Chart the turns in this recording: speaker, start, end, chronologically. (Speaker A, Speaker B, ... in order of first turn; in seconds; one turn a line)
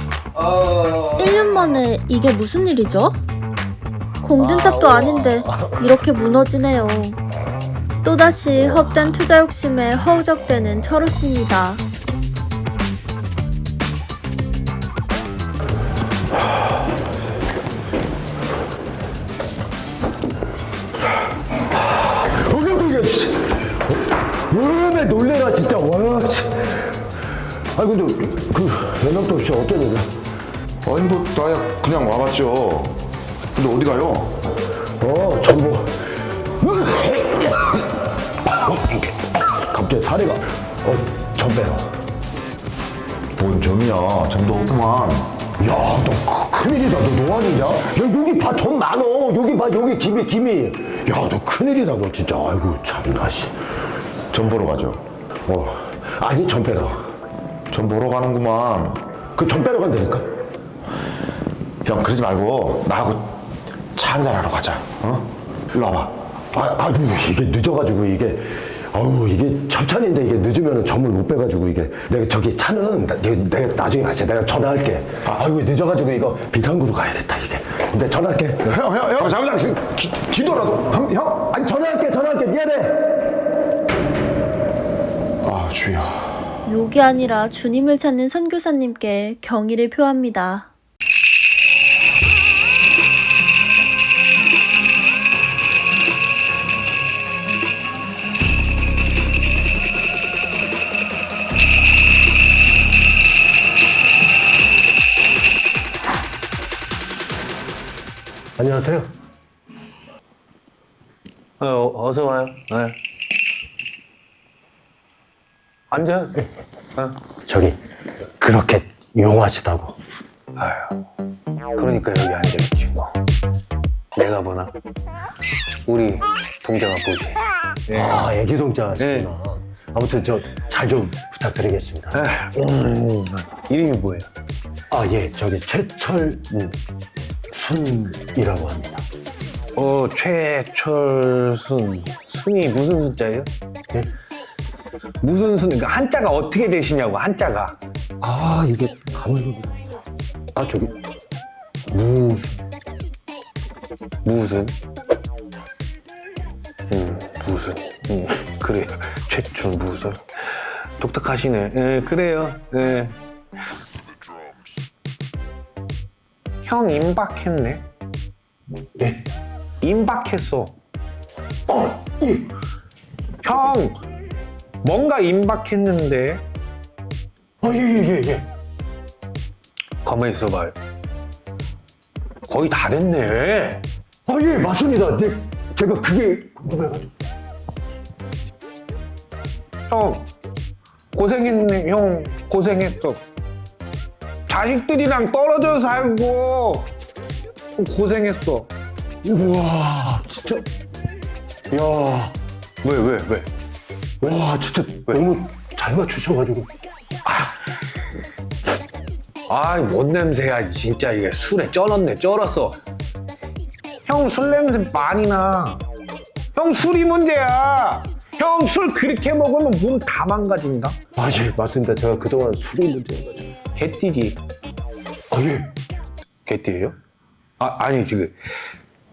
Speaker A: 0.3-1.4
Speaker B: 1.2-3.1
Speaker B: 4.2-7.2
Speaker A: 4.4-5.9
Speaker B: 8.0-11.8
Speaker A: 8.6-8.8
Speaker A: 21.7-27.0
Speaker A: 27.7-30.1
Speaker C: 30.8-33.0
Speaker C: 33.5-34.4
Speaker A: 35.0-37.9
Speaker A: 38.5-41.9
Speaker C: 43.4-45.4
Speaker A: 45.6-53.6
Speaker C: 54.3-55.0
Speaker A: 55.5-57.1
Speaker C: 57.7-59.0
Speaker A: 59.3-60.3
Speaker C: 61.8-63.4
Speaker C: 64.0-66.1
Speaker A: 66.5-78.9
Speaker C: 78.7-81.3
Speaker A: 81.2-83.0
Speaker C: 85.4-86.6
Speaker B: 86.7-90.7
Speaker A: 108.6-109.1
Speaker D: 111.6-113.0
Speaker D: 115.9-116.4
Speaker A: 117.5-117.8
Speaker A: 118.4-120.0
Speaker D: 120.5-121.0
Speaker D: 121.7-123.1
Speaker D: 124.1-124.7
Speaker D: 125.9-128.3
Speaker A: 127.9-132.2
Speaker D: 129.0-129.3
Speaker D: 132.1-134.3
Speaker A: 134.9-136.5
Speaker A: 137.5-139.0
Speaker D: 139.8-143.5
Speaker D: 145.2-147.8
Speaker A: 148.2-149.8
Speaker A: 150.5-150.9
Speaker A: 151.9-152.6
Speaker D: 154.2-154.7
Speaker D: 156.9-163.2
Speaker D: 166.6-167.8
Speaker A: 169.0-169.2
Speaker D: 169.8-170.7
Speaker A: 171.7-172.5
Speaker D: 173.4-174.0
Speaker D: 174.8-176.4
Speaker A: 177.6-178.4
Speaker D: 180.0-180.8
Speaker D: 182.5-183.8
Speaker A: 184.3-187.1
Speaker D: 189.9-190.3
Speaker D: 191.1-193.2
Speaker D: 194.5-196.9
Speaker D: 197.8-198.7
Speaker A: 199.2-200.7
Speaker A: 201.7-202.3
Speaker D: 202.8-203.5
Speaker A: 204.2-206.7
Speaker D: 209.5-212.8
Speaker D: 214.1-215.8
Speaker D: 216.5-221.0
Speaker A: 221.2-223.5
Speaker D: 223.8-224.4
Speaker A: 225.3-225.7
Speaker D: 226.4-227.0
Speaker D: 227.6-228.4